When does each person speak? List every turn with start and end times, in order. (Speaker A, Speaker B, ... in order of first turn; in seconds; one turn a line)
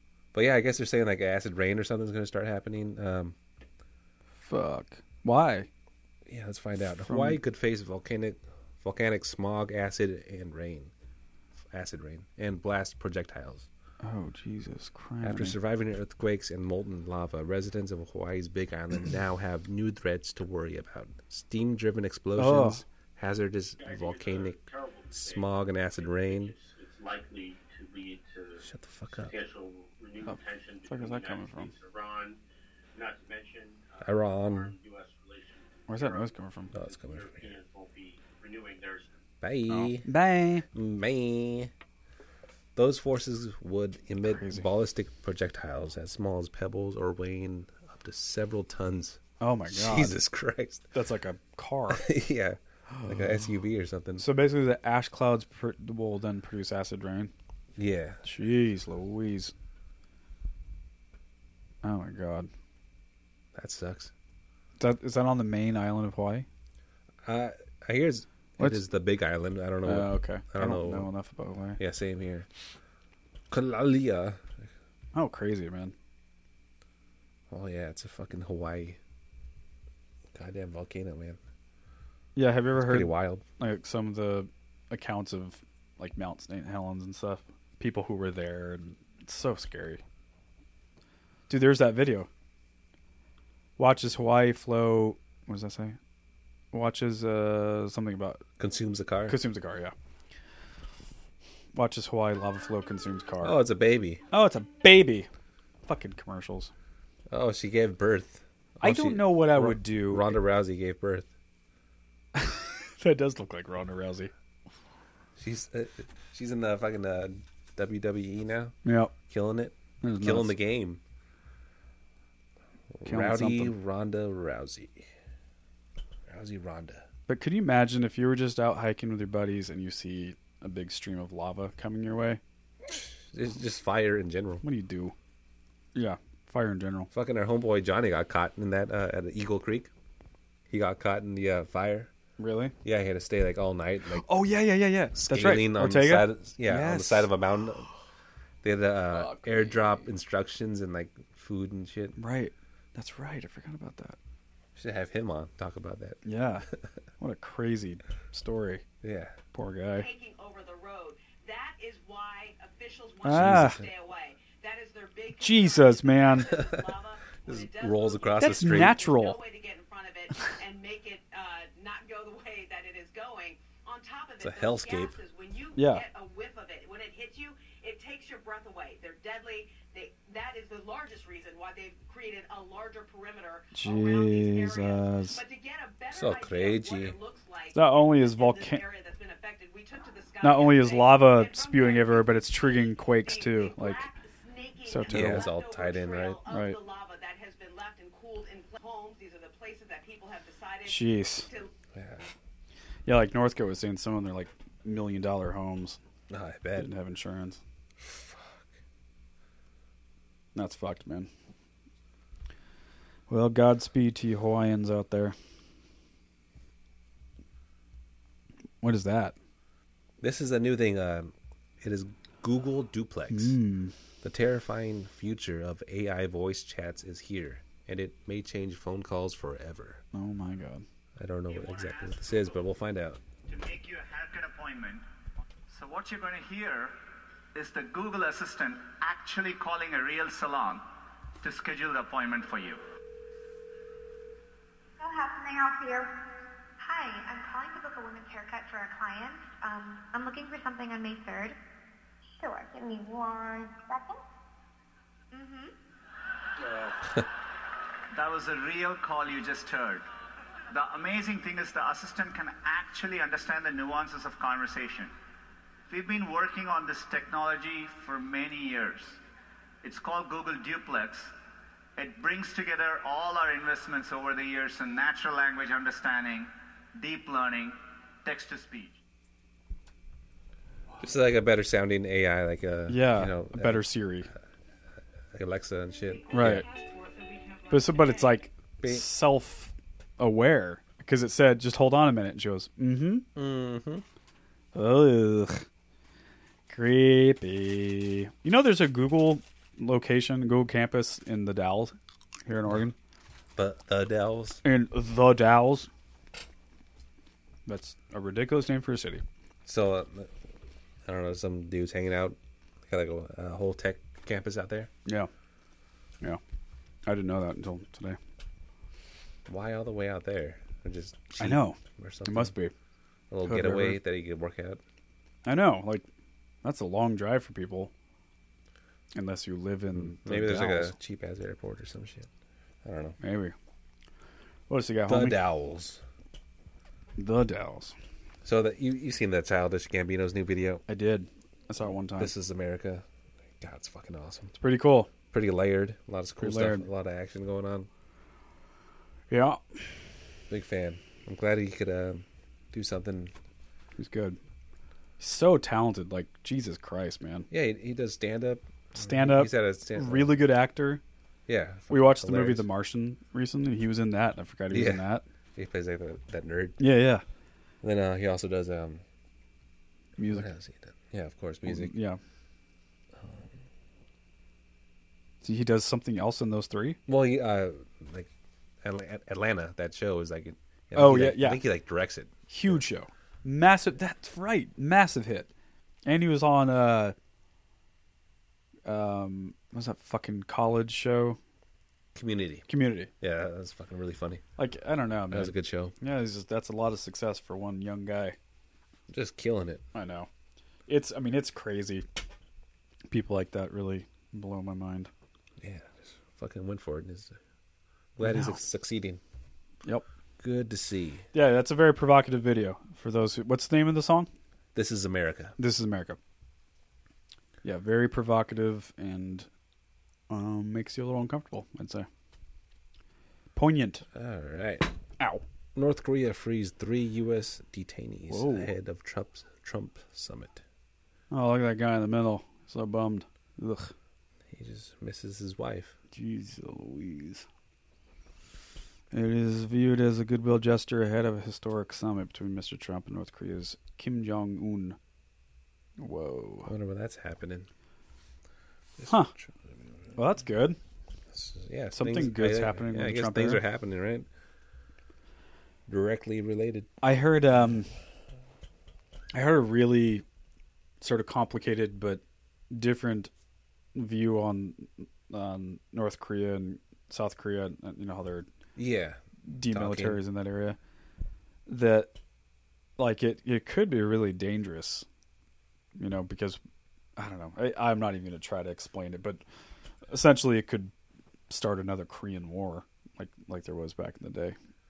Speaker A: 0.3-3.4
Speaker B: 4.4-5.7
Speaker A: 6.3-10.9
Speaker B: 7.1-7.4
Speaker A: 11.7-13.7
Speaker B: 14.0-15.6
Speaker A: 15.2-24.6
Speaker B: 22.4-22.8
Speaker C: 23.8-32.4
Speaker A: 25.1-26.6
Speaker A: 28.6-29.4
Speaker B: 30.3-31.7
Speaker C: 33.0-39.1
Speaker A: 34.0-34.8
Speaker B: 35.9-36.7
Speaker A: 36.7-37.5
Speaker A: 39.4-40.1
Speaker B: 39.7-40.6
Speaker A: 40.7-41.7
Speaker A: 42.8-50.9
Speaker B: 44.2-44.7
Speaker B: 49.4-50.2
Speaker B: 50.9-52.0
Speaker A: 51.9-54.3
Speaker B: 52.9-53.2
Speaker B: 54.2-57.3
Speaker A: 57.8-58.2
Speaker B: 58.2-59.5
Speaker B: 61.8-62.5
Speaker A: 63.5-64.1
Speaker B: 64.8-66.5
Speaker A: 67.2-71.1
Speaker B: 69.8-71.8
Speaker A: 71.8-72.5
Speaker A: 73.5-74.7
Speaker B: 75.2-75.9
Speaker A: 77.5-79.0
Speaker A: 80.3-81.4
Speaker B: 82.4-90.0
Speaker A: 82.8-83.4
Speaker B: 91.5-92.3
Speaker B: 93.8-96.0
Speaker B: 96.7-98.4
Speaker A: 98.6-99.4
Speaker B: 99.3-99.9
Speaker B: 101.8-103.6
Speaker A: 103.4-104.2
Speaker B: 104.3-105.3
Speaker B: 105.9-106.7
Speaker A: 107.3-111.3
Speaker B: 108.8-110.4
Speaker B: 112.3-114.3
Speaker A: 115.4-118.8
Speaker B: 118.8-119.1
Speaker A: 119.3-121.0
Speaker B: 120.0-120.5
Speaker A: 122.9-125.1
Speaker B: 123.0-123.8
Speaker A: 126.3-127.1
Speaker B: 127.3-132.4
Speaker A: 132.8-134.6
Speaker B: 134.6-135.1
Speaker B: 135.9-137.1
Speaker A: 137.1-139.9
Speaker A: 140.7-142.1
Speaker B: 142.4-142.7
Speaker A: 142.8-144.3
Speaker B: 144.1-147.3
Speaker A: 145.2-147.9
Speaker A: 148.6-152.2
Speaker B: 149.1-149.8
Speaker B: 152.2-154.2
Speaker A: 154.8-156.2
Speaker B: 156.2-156.7
Speaker B: 157.2-158.8
Speaker A: 159.0-159.4
Speaker B: 159.5-160.1
Speaker D: 159.9-201.7
Speaker B: 163.2-163.8
Speaker A: 163.3-163.9
Speaker B: 165.4-166.5
Speaker A: 166.4-166.9
Speaker A: 167.5-169.0
Speaker B: 168.4-169.4
Speaker A: 174.4-175.1
Speaker B: 175.8-176.0
Speaker B: 183.7-185.4
Speaker A: 186.1-187.2
Speaker B: 187.7-188.8
Speaker B: 190.4-194.1
Speaker B: 194.9-195.5
Speaker A: 195.1-196.4
Speaker B: 196.5-196.8
Speaker B: 200.9-201.5
Speaker A: 201.9-202.3
Speaker B: 203.1-206.0
Speaker A: 206.3-206.9
Speaker B: 206.8-207.6
Speaker A: 208.0-208.7
Speaker B: 210.6-211.3
Speaker B: 213.3-215.3
Speaker B: 218.8-219.3
Speaker A: 220.2-223.6
Speaker B: 223.3-223.9
Speaker A: 224.2-230.0
Speaker B: 230.1-230.8
Speaker A: 231.2-233.2
Speaker E: 231.5-232.6
Speaker E: 233.5-235.1
Speaker E: 235.7-237.0
Speaker E: 237.5-240.8
Speaker E: 241.4-242.8
Speaker F: 245.0-246.2
Speaker F: 246.8-251.6
Speaker F: 252.4-254.2
Speaker F: 255.3-255.7
Speaker E: 258.1-260.0
Speaker E: 260.7-265.1
Speaker E: 265.9-269.2
Speaker E: 269.8-271.3
Speaker E: 272.0-279.0
Speaker A: 281.0-283.9
Speaker B: 282.9-284.3
Speaker A: 285.3-286.6
Speaker B: 286.3-286.6
Speaker D: 286.4-288.4
Speaker B: 287.7-293.3
Speaker A: 288.8-289.1
Speaker A: 293.4-294.0
Speaker B: 294.7-295.6
Speaker B: 296.7-302.9
Speaker A: 303.6-304.6
Speaker B: 304.6-305.9
Speaker B: 307.7-309.2
Speaker A: 309.6-310.3
Speaker A: 311.1-312.4
Speaker A: 312.9-314.9
Speaker B: 317.1-318.2
Speaker A: 319.5-322.5
Speaker B: 321.4-322.7
Speaker A: 323.3-324.8
Speaker B: 323.4-324.0
Speaker B: 325.4-326.1
Speaker B: 326.6-327.9
Speaker B: 329.1-331.0
Speaker A: 330.0-332.3
Speaker A: 332.8-333.2
Speaker B: 333.2-333.6
Speaker B: 334.7-335.4
Speaker A: 335.1-336.0
Speaker B: 337.2-337.9
Speaker A: 338.4-340.8
Speaker B: 340.9-342.3
Speaker A: 342.1-343.1
Speaker A: 343.6-344.6
Speaker B: 344.6-345.1
Speaker A: 345.3-347.9
Speaker B: 346.4-346.9
Speaker B: 349.3-349.9
Speaker A: 350.5-353.3
Speaker B: 354.0-354.4
Speaker B: 355.2-357.5
Speaker A: 357.5-360.4
Speaker B: 358.9-361.0
Speaker A: 361.5-362.7
Speaker B: 361.9-365.2
Speaker A: 364.7-366.9
Speaker B: 366.8-367.2
Speaker A: 367.8-369.0
Speaker B: 370.2-370.5
Speaker A: 370.3-371.9
Speaker B: 371.6-372.2
Speaker A: 373.2-373.5
Speaker B: 375.4-377.0
Speaker A: 377.1-378.3
Speaker A: 378.8-382.8
Speaker B: 380.9-381.6
Speaker B: 382.5-385.5
Speaker B: 386.1-387.1
Speaker B: 388.9-391.4
Speaker A: 392.1-392.7
Speaker B: 392.7-393.1
Speaker A: 393.2-394.4
Speaker B: 394.6-398.4
Speaker A: 395.3-395.9
Speaker A: 399.1-399.8
Speaker B: 399.9-400.3
Speaker B: 400.9-402.1
Speaker B: 403.1-405.1
Speaker A: 405.6-407.4
Speaker A: 408.2-409.2
Speaker B: 408.2-408.6
Speaker A: 410.4-411.3
Speaker B: 411.3-414.3
Speaker A: 414.8-415.6
Speaker B: 415.6-416.2
Speaker B: 417.6-419.5
Speaker B: 420.3-422.1
Speaker B: 423.6-424.1
Speaker A: 424.1-424.9
Speaker B: 425.2-425.4
Speaker A: 425.8-430.6
Speaker B: 428.3-428.7
Speaker B: 431.3-433.9
Speaker A: 434.5-435.9
Speaker B: 436.1-437.5
Speaker B: 439.1-445.0
Speaker B: 446.0-446.7
Speaker A: 446.6-447.7
Speaker A: 449.0-450.1
Speaker B: 450.1-450.8
Speaker A: 451.3-454.3
Speaker B: 451.9-453.6
Speaker A: 455.9-456.9
Speaker B: 457.0-457.9
Speaker B: 459.3-460.2
Speaker B: 461.0-463.3
Speaker B: 463.9-468.5
Speaker A: 468.8-470.2
Speaker B: 469.4-470.8
Speaker B: 471.7-472.1
Speaker B: 473.0-475.1
Speaker B: 476.0-476.6
Speaker B: 477.2-479.4
Speaker B: 480.1-480.9
Speaker B: 481.5-484.6